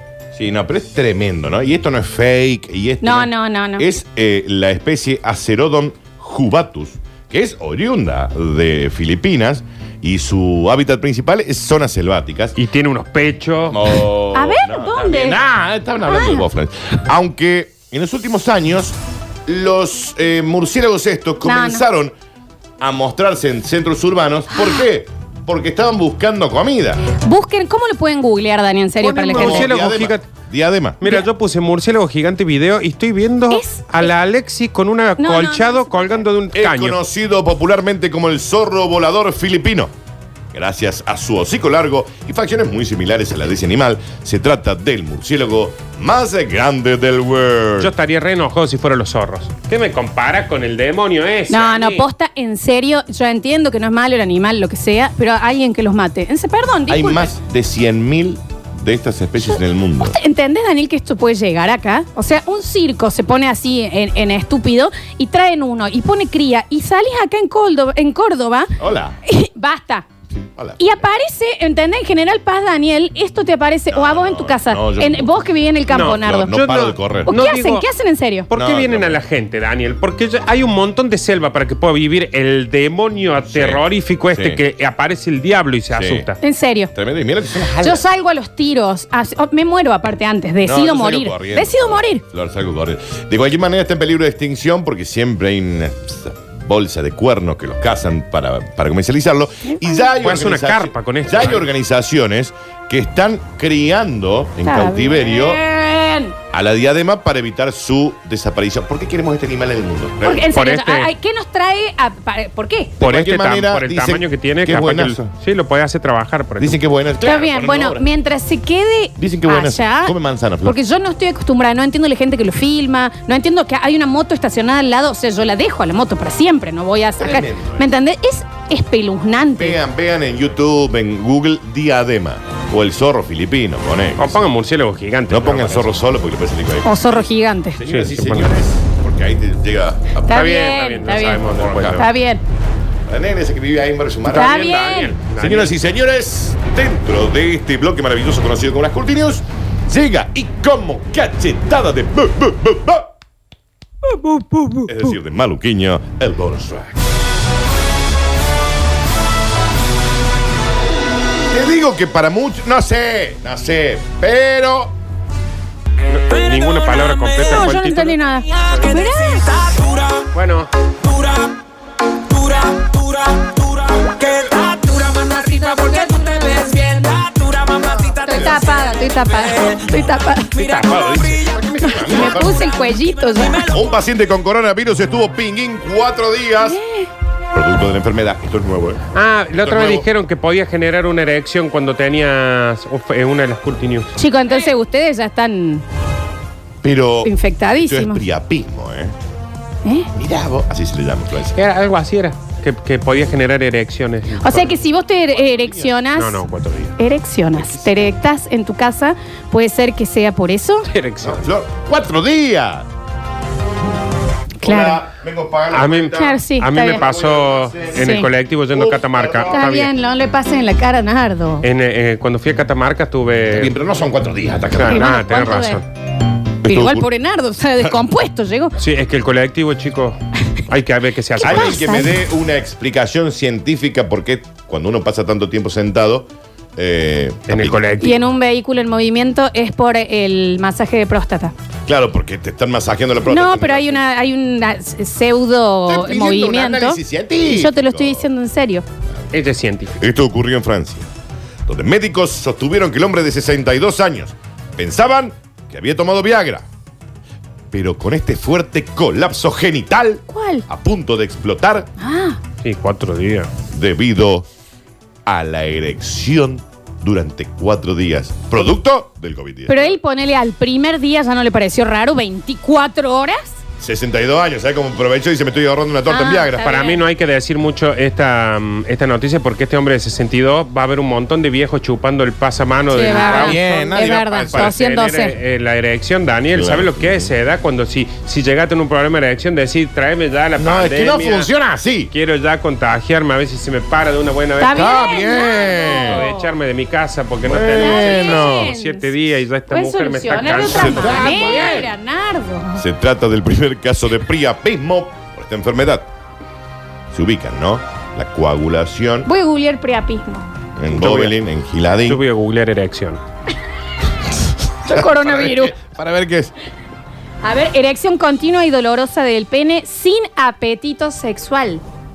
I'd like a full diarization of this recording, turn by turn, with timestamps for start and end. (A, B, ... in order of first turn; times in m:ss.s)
0:00.3-0:12.5 A
0:03.0-0:03.9 B
0:12.6-0:14.1 C
0:13.7-0:22.1 A
0:14.3-0:15.4 B
0:16.0-0:16.4 B
0:21.4-0:21.8 B
0:22.8-0:27.0 A
0:27.2-0:29.7 B
0:29.0-0:30.3 C
0:29.3-0:31.0 A
0:31.0-0:37.0 C
0:33.5-0:34.1 B
0:35.2-0:36.2 B
0:36.5-0:39.9 A
0:40.5-0:47.9 A
0:47.8-0:52.1 C
0:51.5-0:57.3 B
0:56.9-1:00.2 A
0:59.4-1:08.7 B
1:08.8-1:09.2 A
1:09.2-1:10.0 B
1:10.4-1:11.0 A
1:10.8-1:16.5 B
1:13.9-1:15.3 A
1:15.9-1:17.9 C
1:16.0-1:17.3 A
1:17.3-1:18.5 B
1:18.5-1:26.4 C
1:18.5-1:19.2 A
1:23.4-1:24.6 A
1:25.9-1:26.3 A
1:26.4-1:26.9 B
1:26.9-1:28.0 A
1:27.8-1:32.2 B
1:30.6-1:45.6 A
1:39.6-1:40.1 B
1:40.2-1:41.7 C
1:44.6-1:46.3 B
1:46.5-1:50.5 A
1:50.2-1:52.9 B
1:50.5-1:51.1 C
1:53.0-1:55.3 A
1:53.0-1:56.8 C
1:56.6-1:58.0 A
1:57.2-2:09.8 B
1:59.2-2:00.8 A
2:07.2-2:07.9 A
2:09.6-2:14.4 A
2:14.2-2:16.0 C
2:15.3-2:20.5 A
2:16.8-2:17.8 B
2:17.9-2:18.5 C
2:20.3-2:22.4 B
2:20.3-2:22.0 C
2:21.4-2:22.0 A
2:23.1-2:24.6 A
2:24.2-2:25.8 C
2:24.3-2:25.2 B
2:25.4-2:33.1 A
2:34.2-2:35.1 C
2:34.8-2:37.0 A
2:41.5-2:44.9 A
2:46.1-2:48.9 C
2:47.4-2:49.8 B
2:50.3-2:50.7 C
2:54.0-3:00.9 B
2:58.2-2:58.8 A
3:00.7-3:02.7 A
3:01.8-3:03.7 B
3:03.7-3:06.8 A
3:06.6-3:07.1 B
3:07.5-3:10.1 A
3:09.1-3:14.1 C
3:14.2-3:15.8 B
3:16.8-3:19.1 A
3:17.2-3:18.2 B
3:20.1-3:21.6 A
3:21.5-3:24.8 C
3:24.4-3:26.4 B
3:25.3-3:25.9 A
3:26.1-3:26.9 C
3:27.0-3:30.9 B
3:27.5-3:28.1 A
3:30.9-3:31.4 C
3:31.2-3:32.9 A
3:34.6-3:35.0 B
3:34.6-3:38.1 A
3:35.7-3:39.9 C
3:36.1-3:37.1 B
3:38.0-3:38.3 B
3:38.7-3:39.8 A
3:39.5-3:41.6 B
3:41.6-3:43.7 C
3:43.5-3:45.0 A
3:44.7-3:45.8 C
3:44.8-3:45.8 B
3:46.6-3:47.1 A
3:46.6-3:48.8 B
3:48.8-3:50.2 C
3:50.7-3:51.9 C
3:51.4-3:52.1 B
3:51.4-3:58.1 A
3:57.5-3:58.2 C
3:58.0-4:01.5 B
4:01.9-4:04.0 A
4:03.3-4:08.8 B
4:05.9-4:08.3 A
4:09.3-4:09.9 C
4:10.0-4:11.1 A
4:11.7-4:16.6 A
4:17.7-4:21.9 A
4:20.3-4:20.6 B
4:22.0-4:22.4 B
4:22.6-4:23.5 C
4:23.7-4:24.5 A
4:25.2-4:30.0 A
4:29.7-4:33.5 B
4:33.8-4:36.6 A
4:36.1-4:37.0 B
4:36.6-4:51.5 C
4:42.9-4:45.4 B
4:43.1-4:44.7 A
4:46.5-4:47.3 A
4:50.6-4:52.1 A
4:52.1-4:55.2 C
4:54.6-4:56.5 B
4:54.7-4:56.2 A
4:55.7-5:01.9 C
4:57.4-4:58.7 A
4:57.7-4:59.1 B
4:59.7-5:02.8 B
5:00.6-5:01.9 A
5:02.8-5:06.1 A
5:07.1-5:09.3 A
5:09.2-5:10.5 B
5:10.8-5:12.2 A
5:10.9-5:11.4 C
5:12.0-5:13.2 C
5:14.8-5:15.7 B
5:14.9-5:16.5 A
5:17.4-5:21.8 B